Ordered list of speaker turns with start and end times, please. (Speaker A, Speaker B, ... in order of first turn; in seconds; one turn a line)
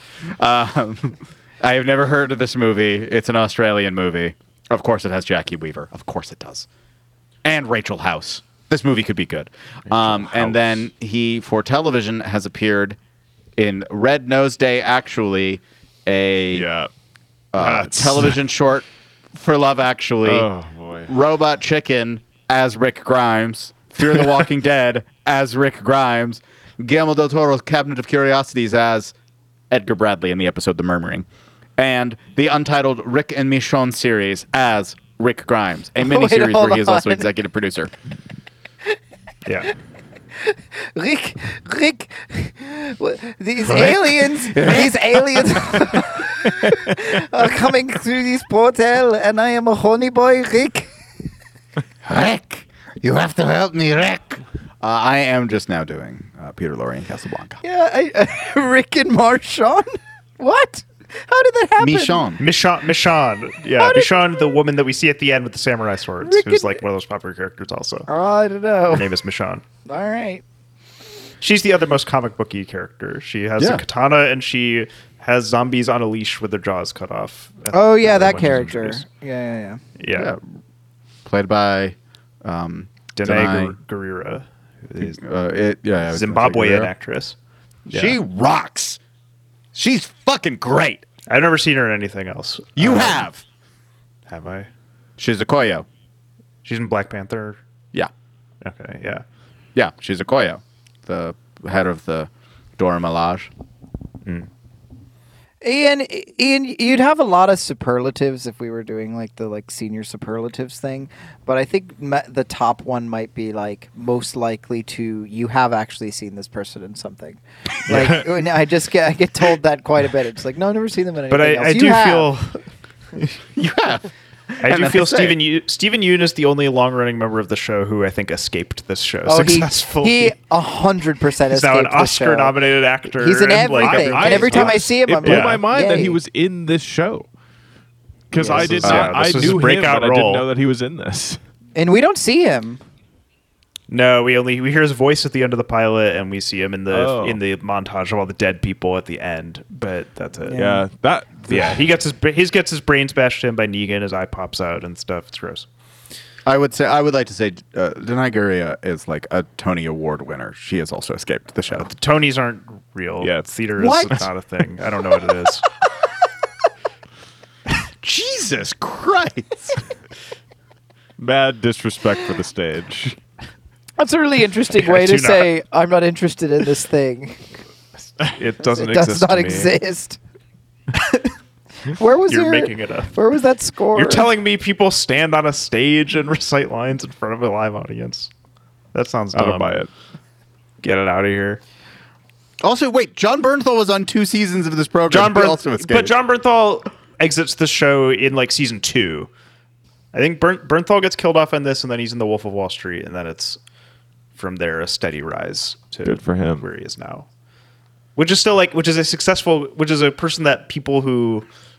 Speaker A: 0.4-6.7
Speaker A: 7.4-13.0
Speaker B: 9.9-10.6
Speaker A: 13.6-16.7
Speaker B: 16.5-16.9
Speaker A: 17.5-20.5
Speaker B: 17.6-18.4
Speaker B: 20.2-21.1
Speaker A: 21.1-29.1
Speaker A: 29.7-31.3
Speaker A: 31.8-37.9
Speaker C: 36.0-37.3
Speaker D: 39.5-39.7
Speaker C: 40.4-50.9
Speaker A: 43.7-45.8
Speaker A: 52.0-57.6
Speaker C: 57.6-62.2
Speaker A: 61.8-62.4
Speaker D: 62.4-68.1
Speaker C: 63.8-64.3
Speaker C: 66.2-66.8
Speaker C: 68.1-69.1
Speaker D: 68.9-69.6
Speaker C: 69.9-70.4
Speaker D: 71.4-79.0
Speaker A: 73.6-73.8
Speaker C: 77.7-79.8
Speaker D: 80.0-80.4
Speaker A: 80.1-80.4
Speaker A: 81.2-83.8
Speaker D: 83.2-85.2
Speaker A: 85.0-86.9
Speaker D: 86.1-87.4
Speaker D: 87.9-88.2
Speaker A: 87.9-89.0
Speaker A: 89.7-91.0
Speaker D: 91.3-93.3
Speaker A: 92.8-93.4
Speaker D: 94.3-94.7
Speaker A: 95.2-95.8
Speaker D: 96.6-97.6
Speaker D: 98.6-99.2
Speaker A: 99.8-103.5
Speaker C: 105.6-122.3
Speaker B: 117.9-118.2
Speaker D: 121.3-122.6
Speaker A: 123.5-125.4
Speaker D: 124.6-130.3
Speaker C: 129.3-132.6
Speaker D: 131.5-135.6
Speaker C: 133.1-136.2
Speaker B: 133.8-137.3
Speaker B: 138.3-141.4
Speaker C: 138.4-138.8
Speaker D: 138.4-140.4
Speaker A: 138.8-139.3
Speaker C: 141.8-142.8
Speaker D: 143.9-150.6
Speaker B: 146.9-147.4
Speaker C: 150.5-150.8
Speaker B: 150.6-151.8
Speaker D: 151.5-155.7
Speaker A: 156.5-161.9
Speaker D: 161.7-165.6
Speaker B: 163.2-164.3
Speaker A: 163.8-164.1
Speaker A: 168.0-169.8
Speaker B: 171.2-173.2
Speaker C: 174.0-177.5
Speaker D: 174.8-175.5
Speaker D: 178.2-179.7
Speaker C: 178.6-180.2
Speaker D: 180.9-181.3
Speaker C: 181.9-184.3
Speaker D: 182.3-183.1
Speaker D: 183.9-188.3
Speaker D: 188.9-189.8
Speaker B: 189.3-189.9
Speaker D: 190.8-191.6
Speaker A: 192.6-196.2
Speaker D: 195.1-199.3
Speaker D: 200.1-203.6
Speaker D: 204.3-207.3
Speaker B: 206.1-206.7
Speaker D: 208.2-211.5